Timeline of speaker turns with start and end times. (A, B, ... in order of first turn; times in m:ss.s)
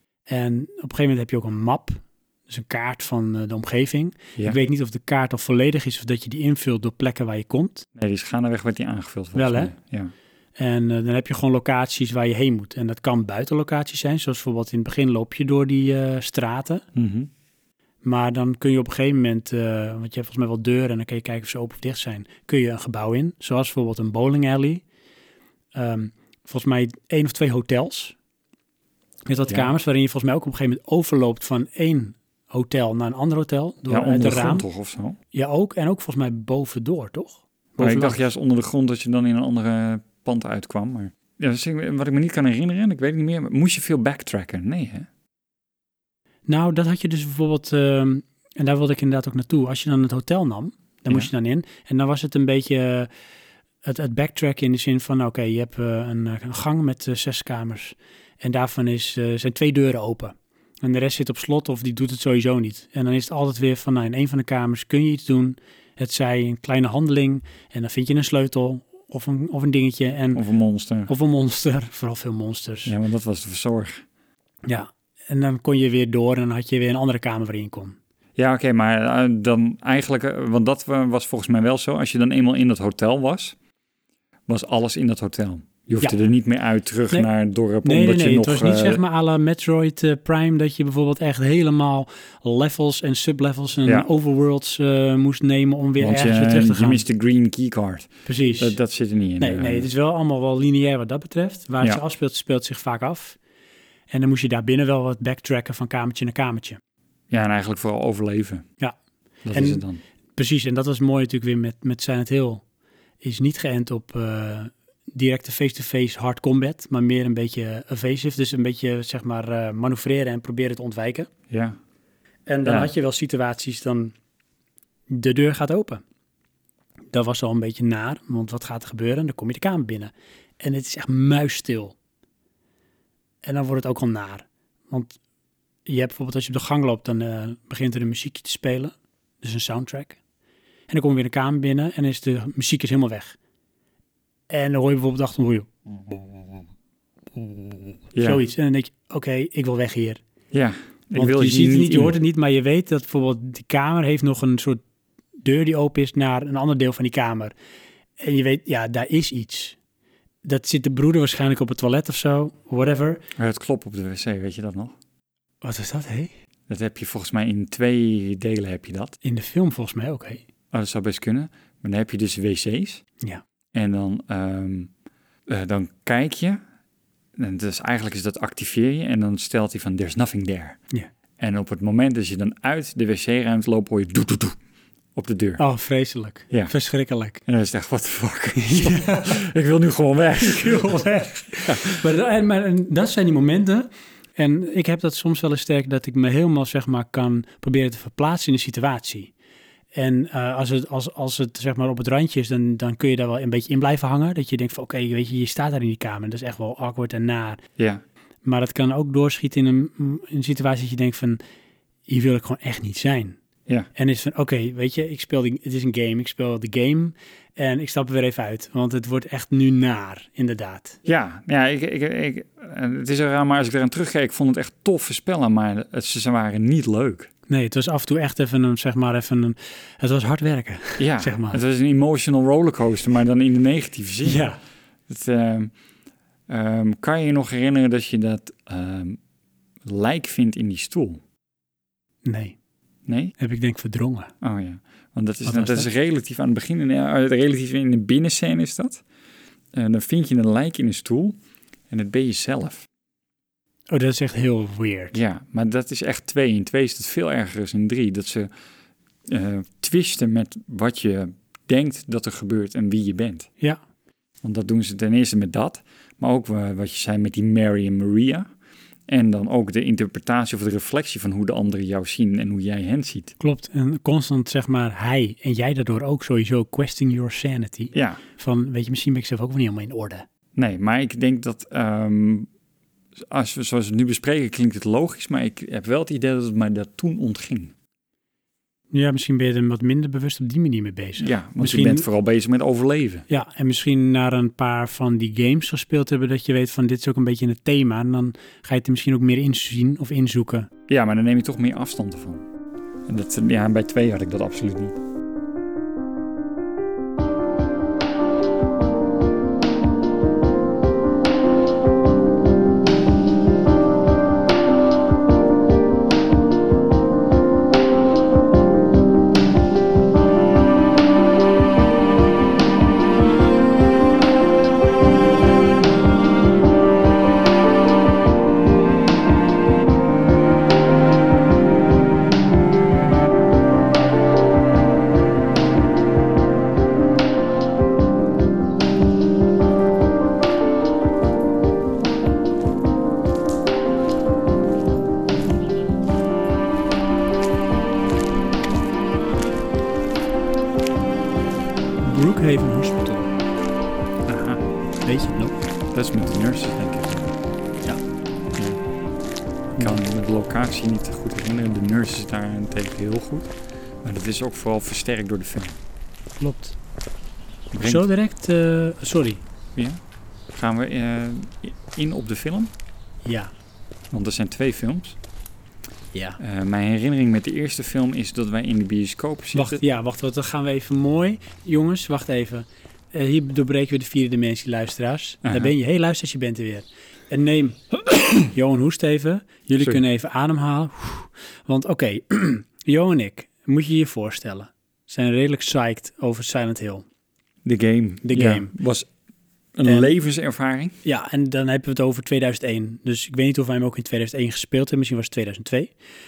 0:00.3-0:07.8 A
0:08.0-0:10.1 B
0:09.3-0:09.7 A
0:10.6-0:16.8 A
0:16.9-0:17.3 B
0:18.0-0:24.8 A
0:25.7-0:28.2 A
0:29.2-0:34.6 A
0:33.9-0:35.2 B
0:35.3-0:38.2 A
0:37.8-0:45.1 B
0:46.5-0:53.1 A
0:53.8-1:10.4 A
1:10.3-1:11.1 B
1:11.1-1:12.9 A
1:12.8-1:14.0 B
1:14.6-1:18.0 A
1:18.4-1:23.6 B
1:24.5-1:29.0 B
1:27.8-1:37.0 A
1:36.0-1:39.9 B
1:38.2-1:38.8 A
1:39.4-1:43.4 A
1:44.1-1:46.8 A
1:47.3-1:48.6 B
1:49.4-1:50.0 B
1:49.5-1:49.8 A
1:50.4-1:52.6 A
1:53.2-2:01.3 A
2:01.5-2:01.8 B
2:02.5-2:04.1 A
2:02.6-2:02.9 B
2:05.1-2:06.0 A
2:07.1-2:12.0 A
2:13.4-2:15.2 A
2:15.9-2:20.2 A
2:20.9-2:23.4 A
2:24.5-2:25.7 A
2:28.1-2:28.4 B
2:28.2-2:30.2 A
2:30.5-2:32.2 B
2:31.1-2:34.8 A
2:35.4-2:37.5 A
2:38.2-2:39.8 A
2:40.4-2:43.2 A
2:43.4-2:44.9 B
2:45.6-2:46.3 A
2:46.7-2:49.2 B
2:49.2-2:50.4 A
2:50.7-2:53.0 B
2:53.7-2:54.9 B
2:55.5-2:56.6 B
2:57.4-3:00.8 B
3:01.4-3:04.6 B
3:05.1-3:05.6 B
3:05.6-3:07.4 A
3:07.4-3:11.0 B
3:08.6-3:09.4 A
3:10.4-3:19.3 A
3:11.6-3:12.0 B
3:19.9-3:27.6 A
3:28.4-3:31.4 A
3:32.1-3:33.4 A
3:33.9-3:41.0 A
3:41.0-3:47.3 B
3:47.5-3:51.6 A
3:51.0-3:54.5 B
3:54.2-3:54.6 A
3:55.1-3:55.7 B
3:56.5-3:59.2 B
3:59.8-4:01.2 B
4:02.2-4:02.6 A
4:03.1-4:03.3 B
4:03.4-4:04.3 A
4:04.4-4:09.0 B
4:05.4-4:05.9 A
4:09.7-4:11.4 B
4:11.9-4:12.8 B
4:13.9-4:15.2 A
4:15.1-4:18.5 B
4:19.3-4:23.5 B
4:24.4-4:28.5 B
4:29.1-4:33.3 B
4:33.4-4:40.2 A
4:37.9-4:38.2 B
4:40.6-4:42.5 B
4:43.3-4:47.7 B
4:48.9-4:52.0 A
4:51.2-4:53.2 B
4:53.3-5:00.7 A
5:00.9-5:02.4 B
5:03.1-5:05.0 B
5:52.0-5:53.3 A
5:54.2-5:54.6 B
5:55.0-5:55.6 A
5:55.9-5:57.3 B
5:59.8-6:03.5 B
6:04.0-6:05.8 B
6:06.4-6:06.8 A
6:07.7-6:08.0 B
6:07.8-6:09.4 A
6:10.5-6:12.7 B
6:13.2-6:13.5 A
6:14.1-6:15.2 B
6:16.1-6:16.4 A
6:16.4-6:19.8 B
6:19.5-6:37.0 A
6:25.4-6:25.7 B
6:37.6-6:39.1 B
6:38.2-6:38.7 A
6:39.8-6:41.0 B
6:39.8-6:40.1 A
6:41.0-6:45.9 A